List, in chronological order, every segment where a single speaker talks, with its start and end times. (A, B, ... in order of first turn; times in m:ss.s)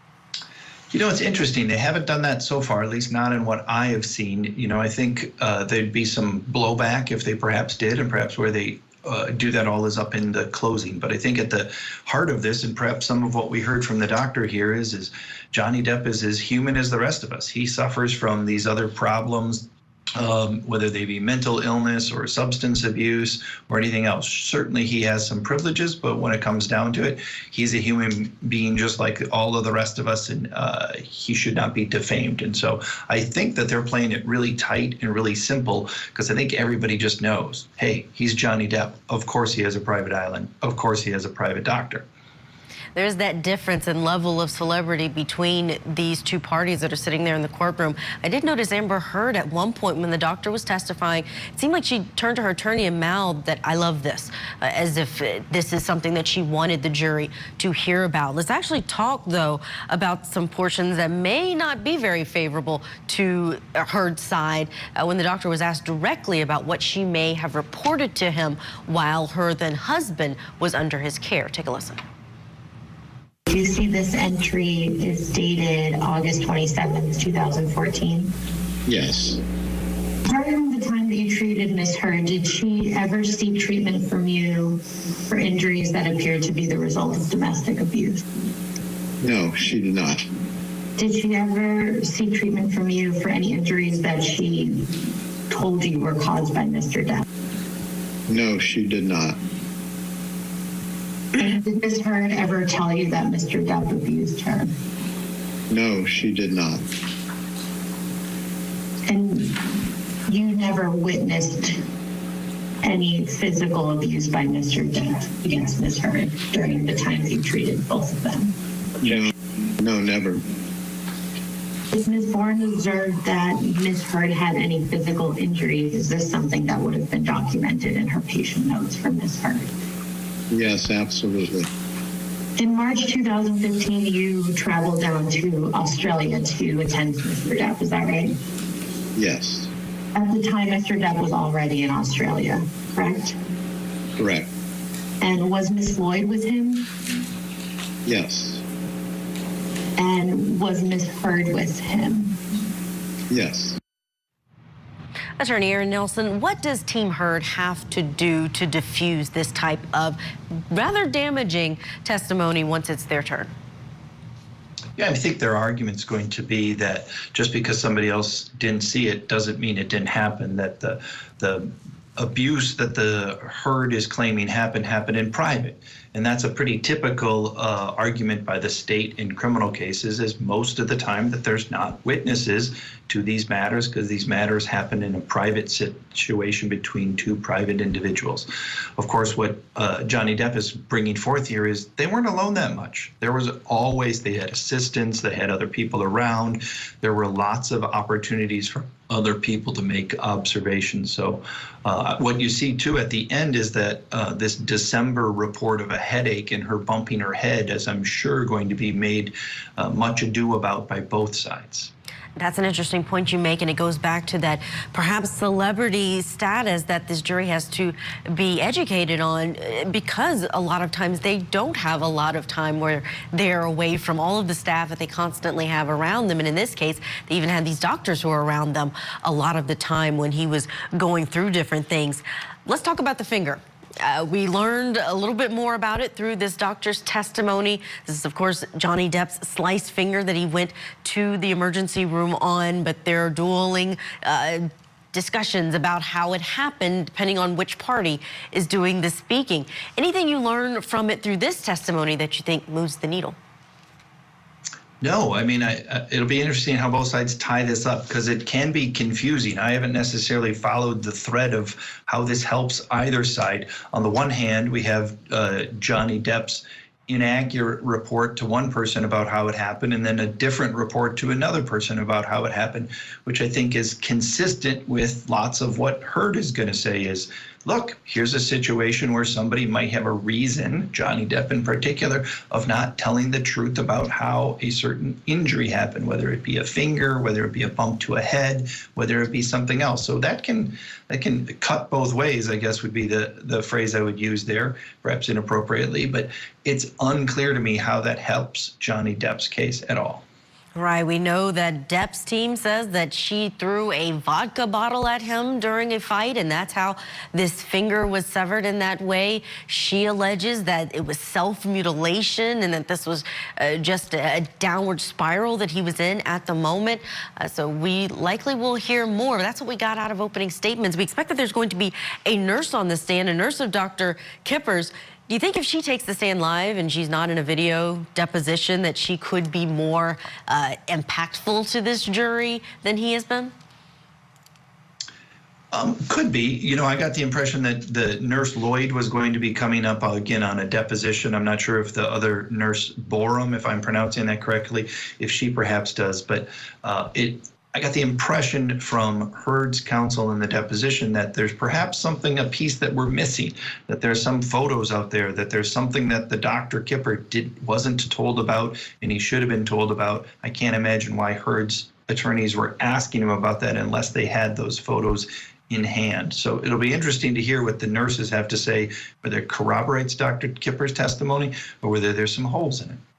0:00.9-0:42.0 A
0:43.0-1:12.0 B
1:13.5-1:18.3 C
1:18.9-1:19.4 D
1:20.2-1:28.2 C
1:29.2-1:30.2 D
1:31.0-1:37.2 C
1:38.3-1:39.4 D
1:41.4-1:44.7 C
1:45.7-1:46.8 D
1:49.1-1:51.8 C
1:52.8-1:58.6 C
1:59.0-1:59.3 D
1:59.8-2:00.4 D
2:01.9-2:09.7 C
2:10.5-2:11.7 D
2:12.6-2:18.4 C
2:19.2-2:19.7 D
2:20.1-2:23.4 C
2:24.2-2:24.5 D
2:25.2-2:26.9 C
2:28.0-2:28.6 D
2:30.0-2:32.4 C
2:33.3-2:33.8 D
2:35.4-2:40.2 B
2:40.7-2:43.5 B
2:45.0-3:31.9 A
3:32.4-4:13.4 B
4:15.0-5:00.2 A
5:00.8-5:33.5 B
5:35.7-6:13.0 A